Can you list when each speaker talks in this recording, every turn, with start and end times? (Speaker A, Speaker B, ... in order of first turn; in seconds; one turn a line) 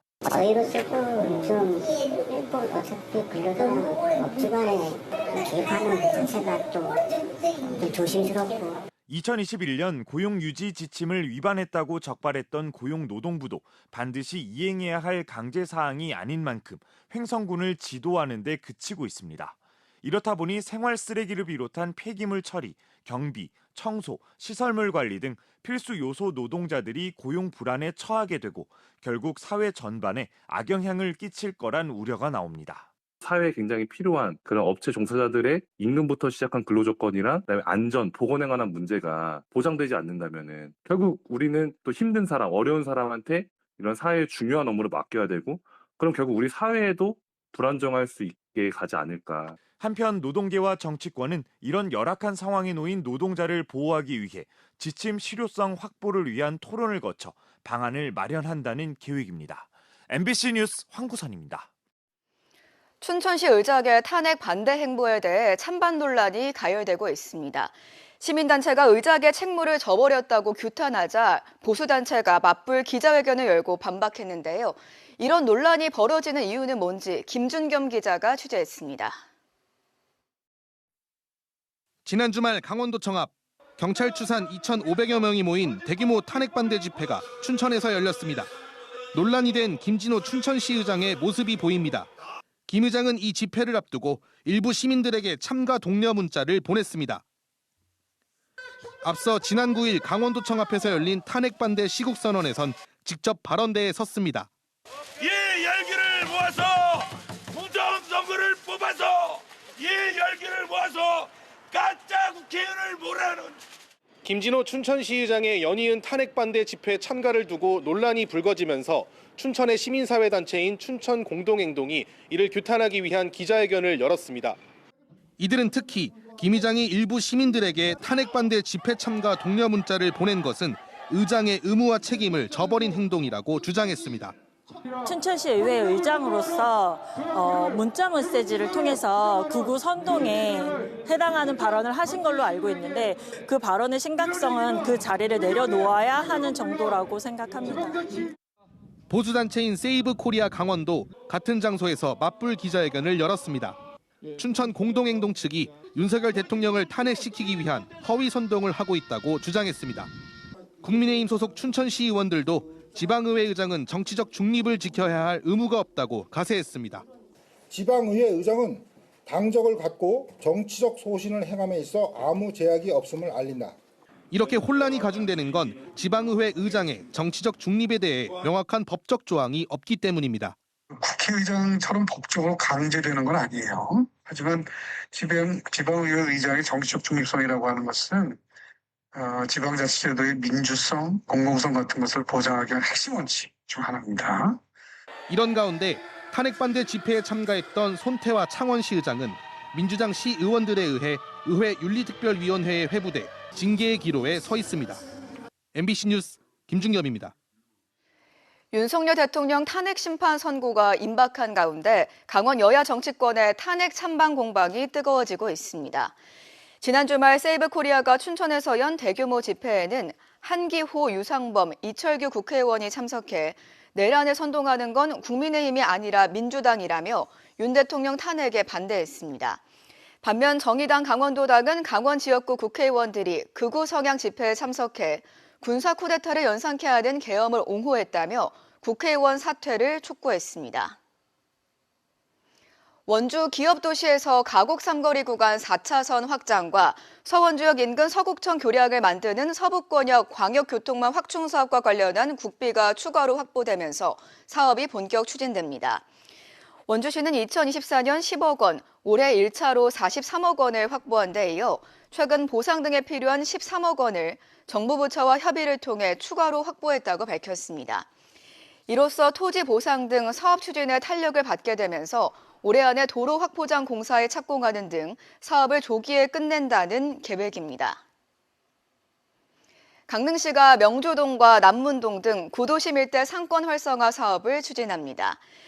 Speaker A: 0.2-8.8
Speaker B: 9.1-32.9
Speaker C: 33.2-49.6
Speaker B: 49.8-61.7
Speaker D: 63.0-79.2
Speaker E: 82.0-88.5
Speaker E: 89.1-92.1
Speaker E: 92.7-97.2
Speaker E: 99.0-104.5
Speaker F: 105.2-107.0
Speaker F: 107.6-113.5
Speaker E: 114.2-124.6
Speaker C: 123.7-124.0
Speaker E: 125.4-134.3
Speaker G: 135.0-148.1
Speaker E: 149.1-153.8
Speaker E: 154.3-160.1
Speaker E: 160.8-167.0
Speaker H: 167.7-173.7
Speaker E: 174.3-180.6
Speaker I: 181.0-188.4
Speaker I: 189.1-194.6
Speaker E: 195.3-205.0
Speaker E: 205.7-207.3
Speaker D: 208.7-216.1
Speaker D: 216.8-229.6
Speaker D: 230.2-241.0
Speaker D: 243.1-256.0
Speaker D: 256.9-268.1
Speaker D: 268.9-278.0
Speaker D: 280.1-285.4